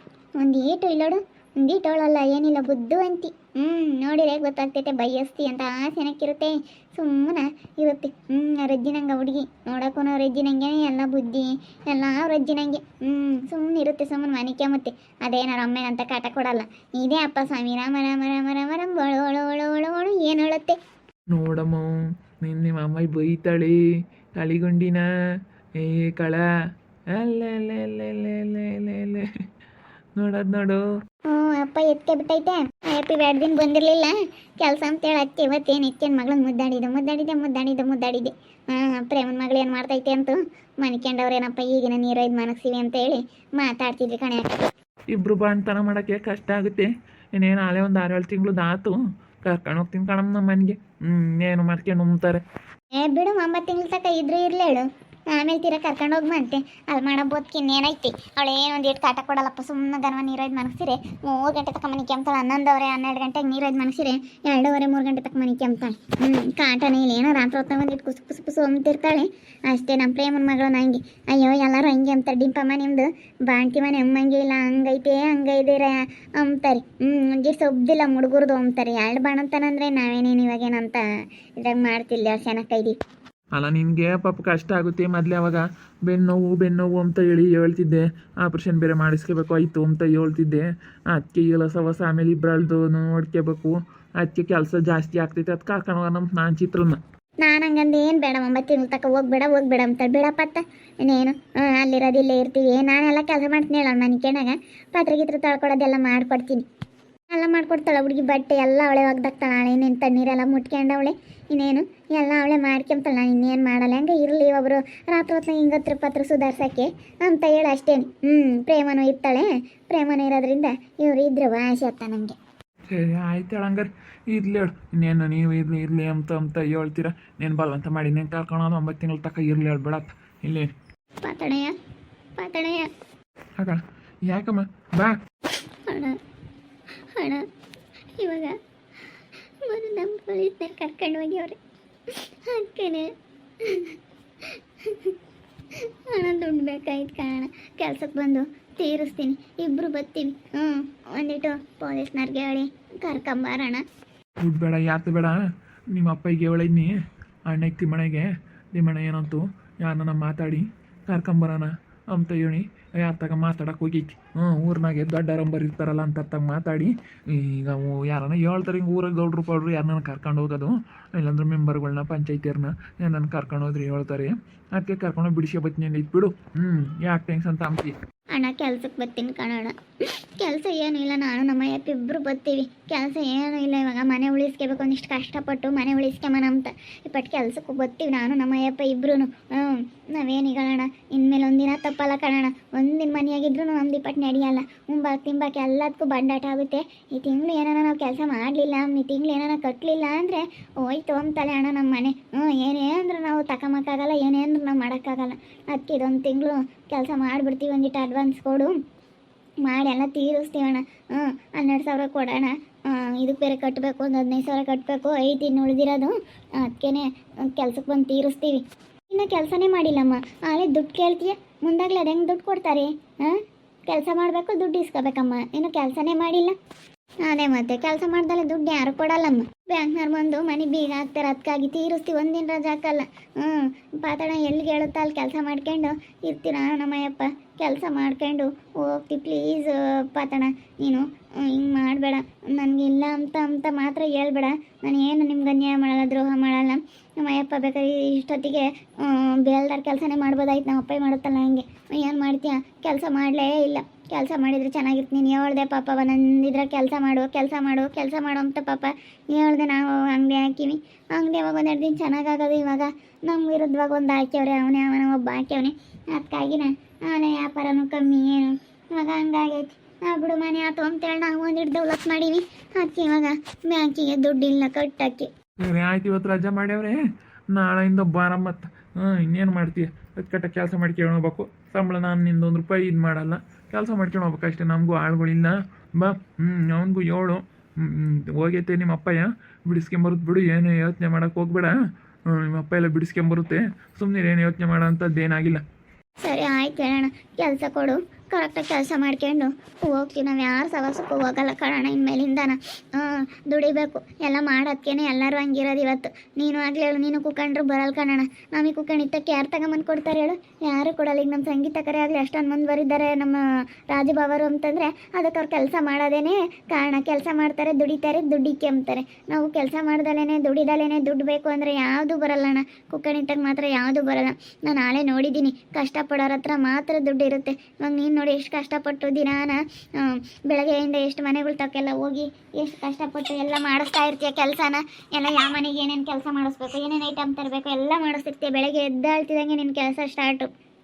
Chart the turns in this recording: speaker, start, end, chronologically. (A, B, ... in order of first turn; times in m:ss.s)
0:00.4-0:20.8 A
0:21.3-0:23.8 B
0:24.4-0:25.1 B
0:25.8-0:26.5 B
0:27.1-0:29.3 B
0:30.2-0:30.8 B
0:31.3-0:44.7 A
0:45.1-0:52.4 B
0:53.0-1:21.0 A
1:21.6-1:23.0 A
1:23.5-1:37.0 B
1:37.4-1:46.6 A
1:47.3-2:02.4 A
2:02.9-2:10.7 B
2:11.2-2:11.7 A
2:12.4-2:12.9 A
2:13.6-2:15.2 B
2:15.9-2:16.2 A
2:17.2-2:17.4 A
2:18.2-2:18.5 A
2:19.6-2:25.2 A
2:25.7-2:33.8 A
2:34.4-2:35.4 B
2:35.9-2:36.9 B
2:37.5-2:57.9 B
2:58.3-3:28.8 A
3:29.6-3:46.5 A
3:47.2-4:35.3 A
4:35.6-4:37.0 B
4:37.5-4:51.7 B
4:52.3-4:55.6 B
4:56.2-5:40.5 A